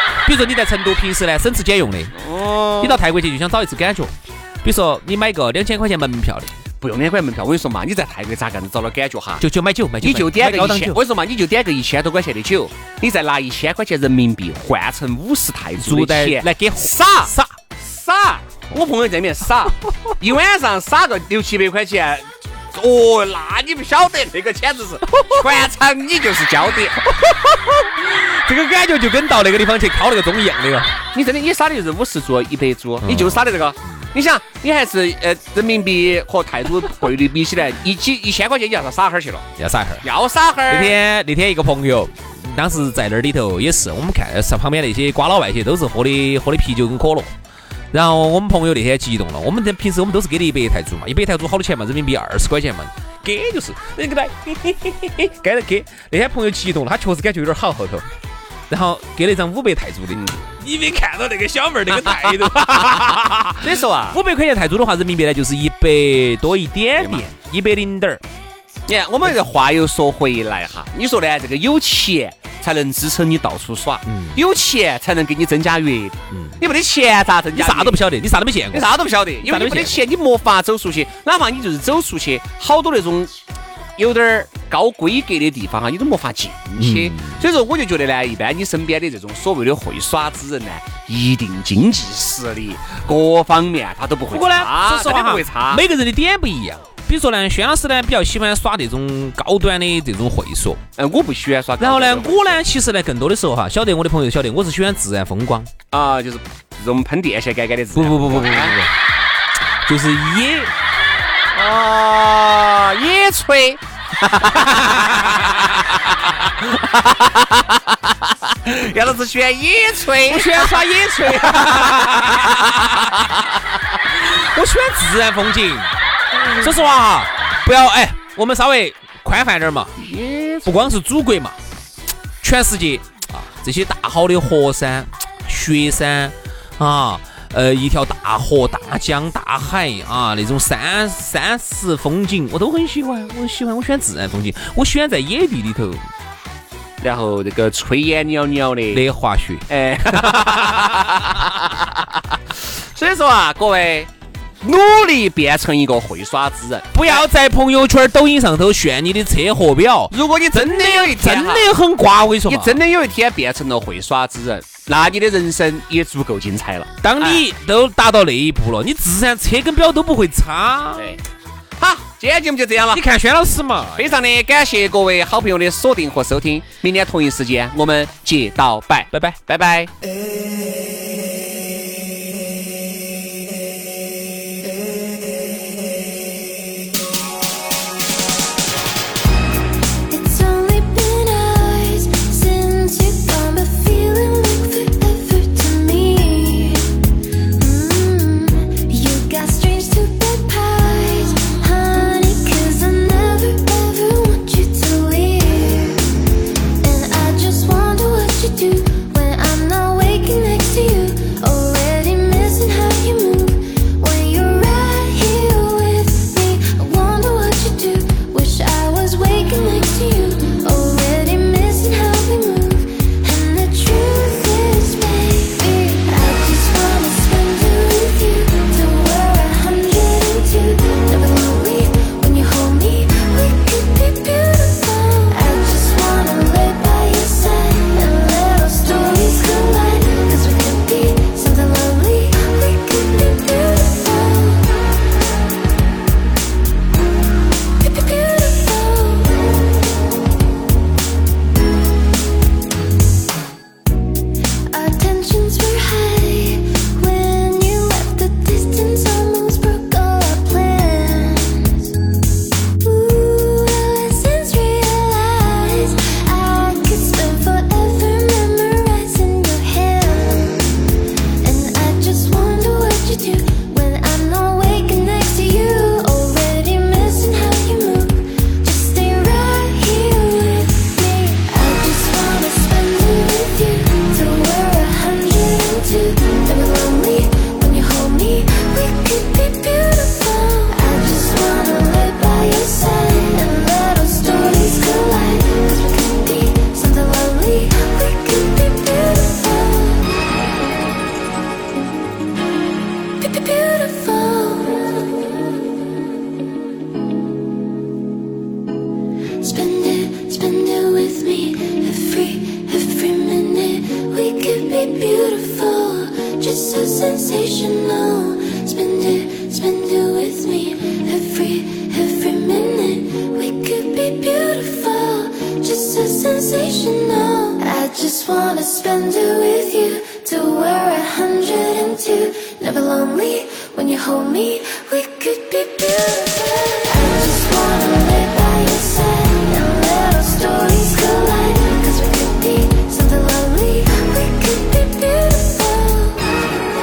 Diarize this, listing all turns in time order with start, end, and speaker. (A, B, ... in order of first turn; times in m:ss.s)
0:00.2-0:02.2 A
0:02.1-0:03.0 B
0:02.8-0:06.5 A
0:06.8-0:09.4 B
0:09.4-0:11.0 A
0:10.0-0:27.0 B
0:15.8-0:17.5 A
0:25.1-0:25.5 A
0:27.0-0:31.0 A
0:31.1-0:39.5 B
0:33.0-0:33.4 A
0:39.6-0:40.0 A
0:40.0-0:41.0 B
0:40.7-0:47.3 A
0:47.9-0:58.1 A
0:58.7-1:08.2 A
1:00.1-1:00.4 B
1:03.6-1:04.2 B
1:07.0-1:07.2 B
1:08.9-1:18.0 B
1:14.1-1:14.4 A
1:16.3-1:16.6 A
1:17.5-1:20.0 A
1:18.7-1:23.3 B
1:24.0-1:35.8 B
1:26.8-1:27.4 A
1:34.3-1:40.8 A
1:41.0-1:42.6 B
1:41.8-1:45.7 A
1:45.9-1:48.8 B
1:47.9-1:48.9 A
1:49.8-1:50.7 A
1:51.5-1:55.5 B
1:54.8-1:55.3 A
1:56.4-2:00.8 B
2:00.2-2:03.2 A
2:01.4-2:01.9 B
2:04.1-2:10.0 A
2:10.0-2:10.9 B
2:10.6-2:11.6 A
2:12.4-2:26.0 A
2:27.0-2:29.0 B
2:28.9-2:29.6 A
2:29.7-2:32.0 B
2:30.2-2:31.1 A
2:32.8-2:34.1 B
2:34.6-2:37.2 B
2:36.9-2:42.8 A
2:40.1-2:41.6 B
2:42.4-2:47.4 B
2:47.0-2:51.0 A
2:51.8-2:53.0 B
2:52.9-2:54.1 A
2:54.0-2:59.9 B
2:59.1-2:59.4 A
3:10.1-3:17.0 C
3:17.6-3:26.1 C
3:26.8-4:04.8 C
4:07.8-4:09.5 C
4:14.7-4:21.9 C
4:22.8-4:30.8 C
4:31.4-5:00.1 C
5:03.2-5:05.1 C
5:09.4-5:46.4 C